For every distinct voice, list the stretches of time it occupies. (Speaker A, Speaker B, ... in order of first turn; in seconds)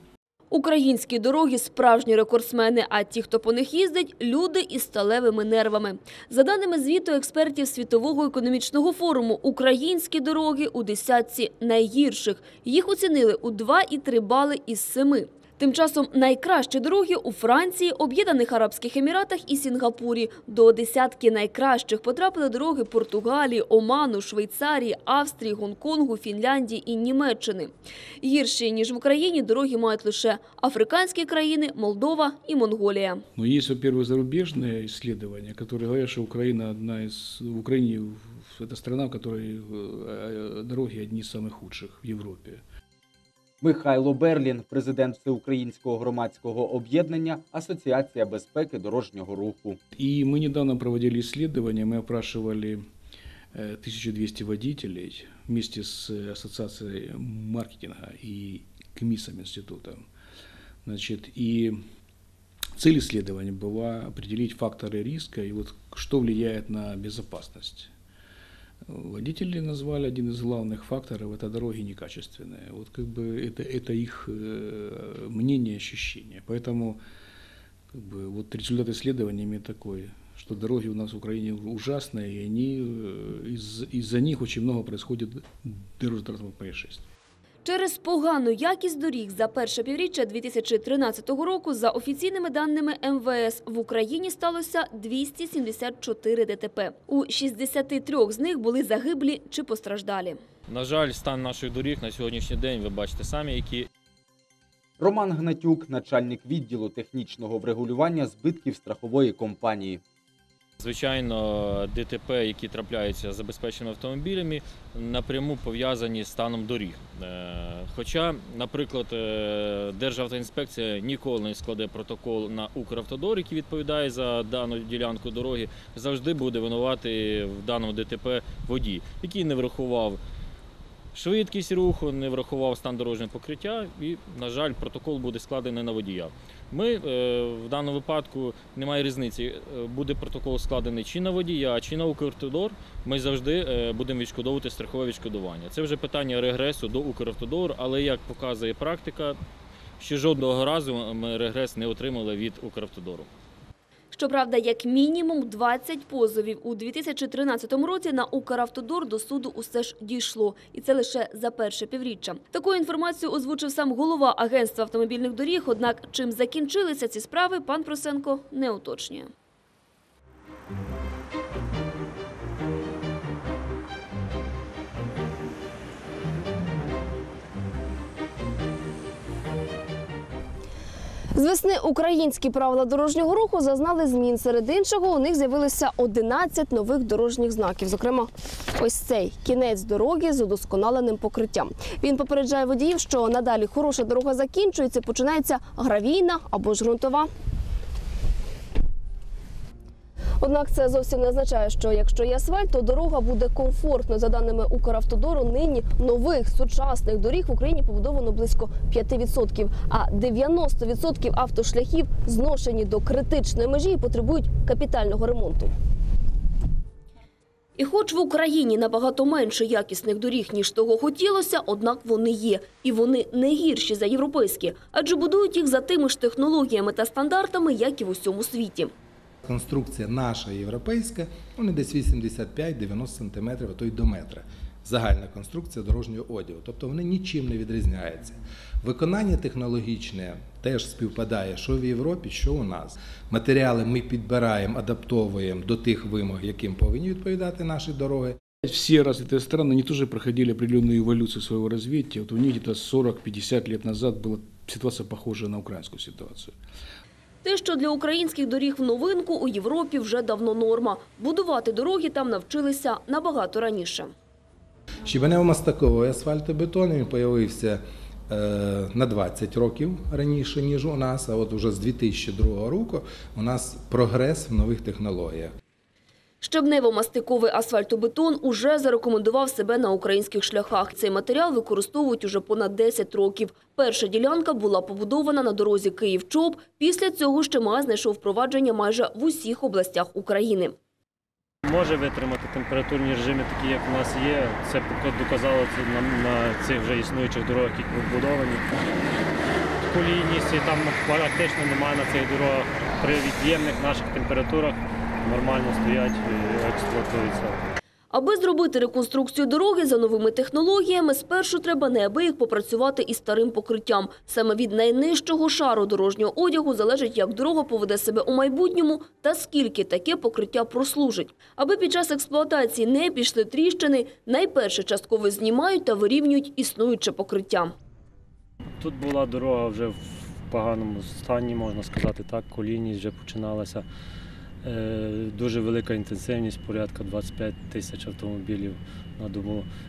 Speaker A: 0.5-33.2, 87.6-100.4, 154.1-169.3, 217.8-228.9, 257.4-264.1, 276.4-290.7, 308.1-327.7
Speaker B: 33.4-42.6, 49.9-52.8, 53.5-60.0, 60.8-61.8, 62.8-67.9, 68.9-77.0, 77.9-87.1, 248.6-256.5
Speaker C: 43.6-49.8, 105.0-110.0
Speaker D: 100.7-103.9, 110.8-130.2, 131.1-149.4, 150.0-153.3
Speaker E: 181.3-197.3, 200.4-215.7
Speaker F: 229.4-248.4, 265.0-275.5
Speaker G: 291.6-298.7, 299.8-307.6, 328.8-333.9, 334.6-339.7